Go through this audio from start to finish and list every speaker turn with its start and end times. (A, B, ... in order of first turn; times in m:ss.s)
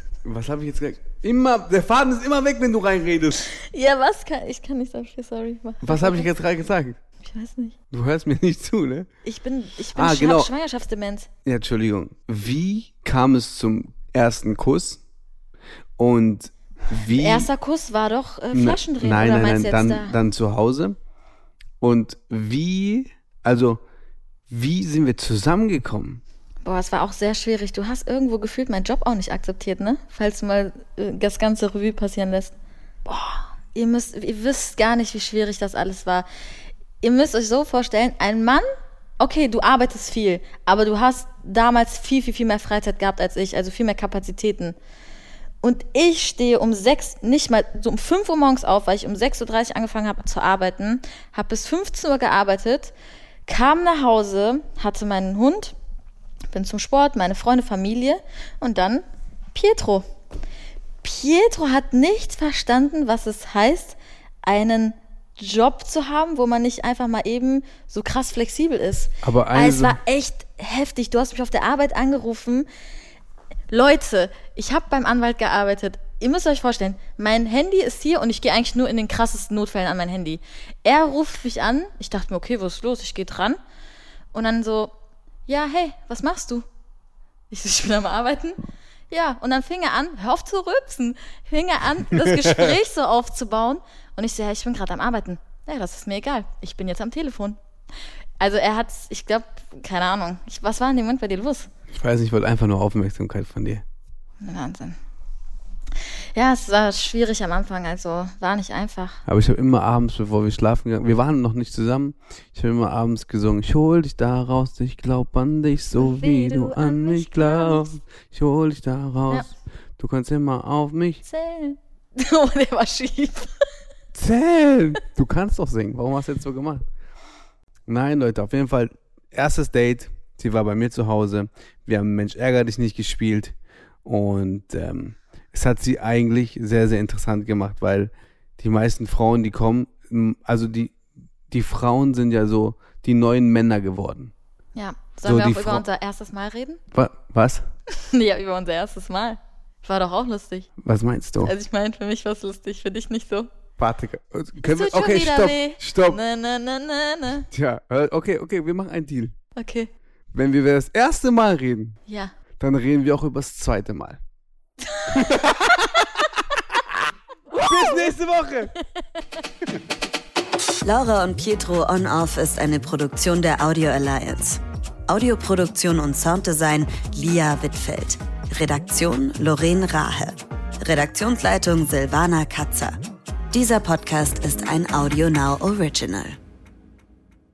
0:00.2-0:03.5 A
0:03.5-0:06.3 B
0:05.8-0:07.0 A
0:07.2-0:07.8 B
0:07.9-0:09.1 A
0:09.2-0:11.3 B
0:09.9-0:10.5 A
0:11.4-0:15.0 A
0:16.0-0:17.5 A
0:17.1-0:20.1 B
0:18.5-0:21.0 A
0:21.8-0:23.8 A
0:24.5-0:26.2 A
0:26.6-0:32.5 B
0:33.0-0:36.2 B
0:37.0-0:38.6 B
0:39.2-0:44.8 B
0:45.6-0:52.9 B
0:53.5-0:55.8 B
0:56.5-1:00.0 B
1:01.0-1:12.7 B
1:09.2-1:10.0 A
1:13.7-1:23.6 B
1:24.3-1:24.9 B
1:25.5-1:26.6 B
1:27.5-1:28.6 B
1:29.1-1:37.6 B
1:32.1-1:32.8 A
1:38.4-1:41.7 B
1:41.9-1:43.8 A
1:44.4-1:45.0 B
1:46.3-1:49.2 B
1:49.2-2:01.2 A
1:56.0-1:57.9 B
2:01.2-2:03.5 B
2:04.1-2:06.8 A
2:07.9-2:21.0 A
2:21.5-2:24.3 A
2:24.8-2:26.8 B
2:25.2-2:25.8 A
2:26.9-2:27.6 A
2:27.9-2:30.7 B
2:30.8-2:31.5 A
2:31.4-2:33.5 B
2:33.8-2:36.2 A
2:34.6-2:37.5 B
2:37.5-2:39.3 A
2:39.6-2:39.9 B
2:40.3-2:42.0 A
2:42.1-2:42.3 B
2:42.6-2:44.2 A
2:44.9-2:45.4 B
2:45.1-2:46.6 A
2:46.0-2:46.2 B
2:47.5-2:48.1 B
2:47.5-2:48.7 A
2:50.8-3:03.0 C
3:03.5-3:06.4 C